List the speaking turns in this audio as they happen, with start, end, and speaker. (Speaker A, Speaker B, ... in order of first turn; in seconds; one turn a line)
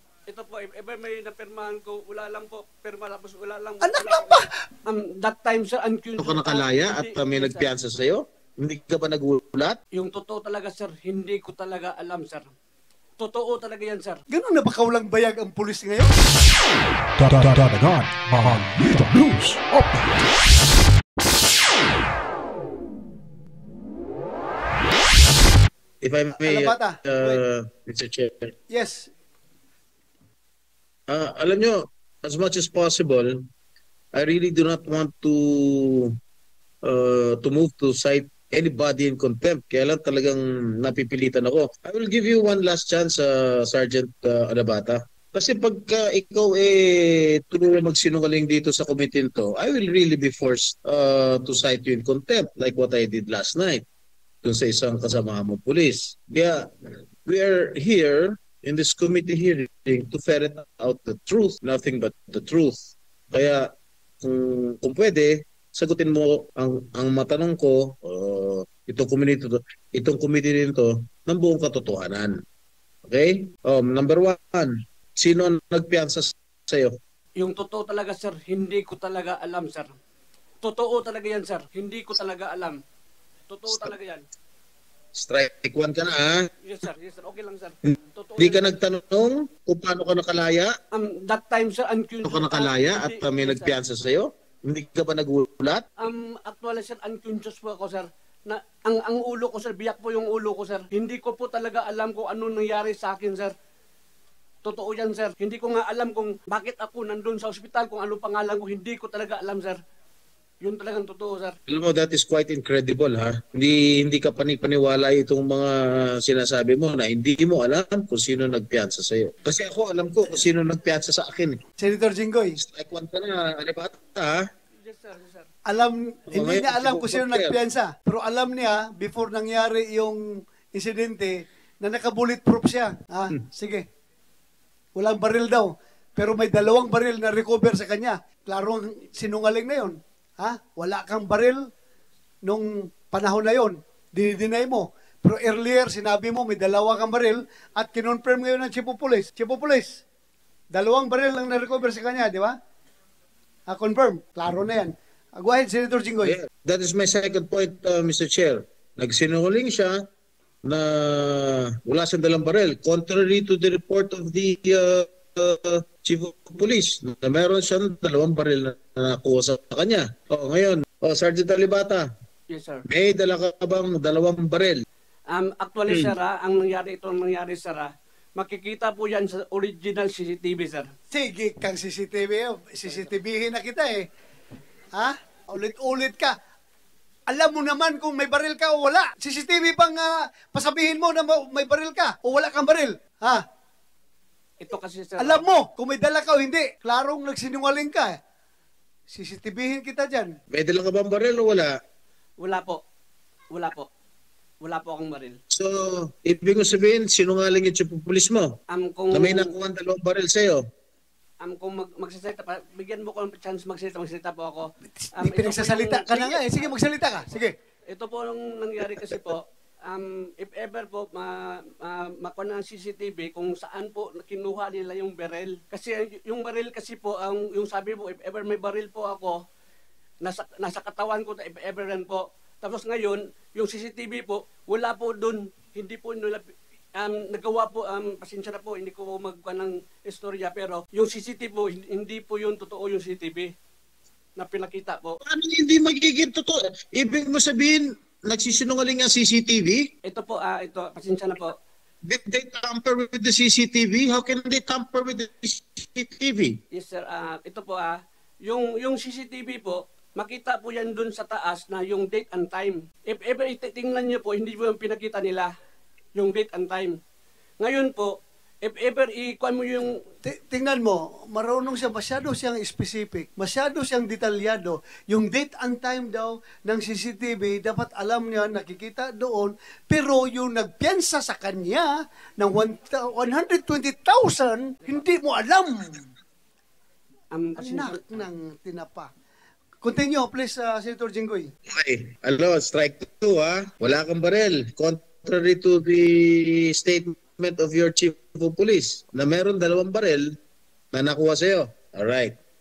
Speaker A: 0.3-7.7
Speaker B: 3.8-4.5
Speaker C: 6.2-9.8
Speaker A: 9.9-12.5
Speaker A: 13.2-14.2
Speaker B: 14.3-16.1
Speaker D: 17.2-20.2
Speaker C: 26.0-28.5
Speaker B: 26.4-27.4
Speaker B: 28.7-29.1
Speaker C: 31.1-33.5
Speaker C: 34.1-36.1
Speaker C: 36.8-53.8
Speaker C: 54.4-56.6
Speaker C: 57.2-62.8
Speaker C: 63.3-63.7
Speaker C: 64.2-72.4
Speaker C: 73.1-76.9
Speaker A: 77.4-79.9
Speaker A: 80.6-82.8
Speaker A: 83.5-84.2
Speaker C: 83.7-83.9
Speaker C: 85.1-86.5
Speaker A: 86.6-88.8
Speaker C: 87.8-90.7
Speaker A: 90.9-93.8
Speaker C: 92.2-95.9
Speaker A: 96.0-103.5
Speaker A: 104.6-109.8
Speaker A: 110.6-111.5
Speaker C: 111.7-121.6
Speaker B: 121.8-122.6
Speaker C: 122.6-124.4
Speaker A: 124.8-125.5
Speaker B: 125.7-133.8
Speaker C: 126.3-127.5
Speaker B: 134.9-141.7
Speaker B: 142.4-150.0
Speaker B: 150.7-152.5
Speaker B: 153.7-156.4
Speaker C: 156.2-160.1
Speaker C: 160.6-172.1
Speaker A: 172.5-172.8
Speaker C: 172.8-174.8
Speaker A: 175.3-180.9
Speaker C: 175.9-176.1
Speaker B: 181.1-184.1
Speaker A: 182.8-183.1
Speaker B: 184.9-186.3
Speaker B: 187.3-193.4
Speaker A: 194.6-195.4
Speaker B: 195.2-198.2
Speaker B: 199.1-200.3
Speaker C: 200.5-201.7
Speaker A: 202.4-202.8
Speaker A: 203.5-203.9
Speaker A: 204.6-205.4
Speaker C: 205.5-208.6
Speaker A: 208.7-209.5
Speaker C: 209.1-210.6
Speaker A: 211.4-214.7
Speaker B: 214.9-217.5
Speaker A: 215.2-216.8
Speaker A: 217.9-229.3
Speaker C: 218.9-219.2
Speaker A: 230.2-243.5
Speaker A: 244.4-245.2
Speaker C: 245.2-249.9
Speaker A: 250.1-251.6
Speaker C: 252.0-256.6
Speaker A: 256.7-265.5
Speaker A: 266.1-266.9
Speaker A: 267.6-270.0
Speaker B: 270.2-286.1
Speaker A: 287.3-288.2
Speaker B: 287.6-289.1
Speaker B: 289.8-291.5
Speaker C: 291.7-300.4
Speaker C: 300.9-302.4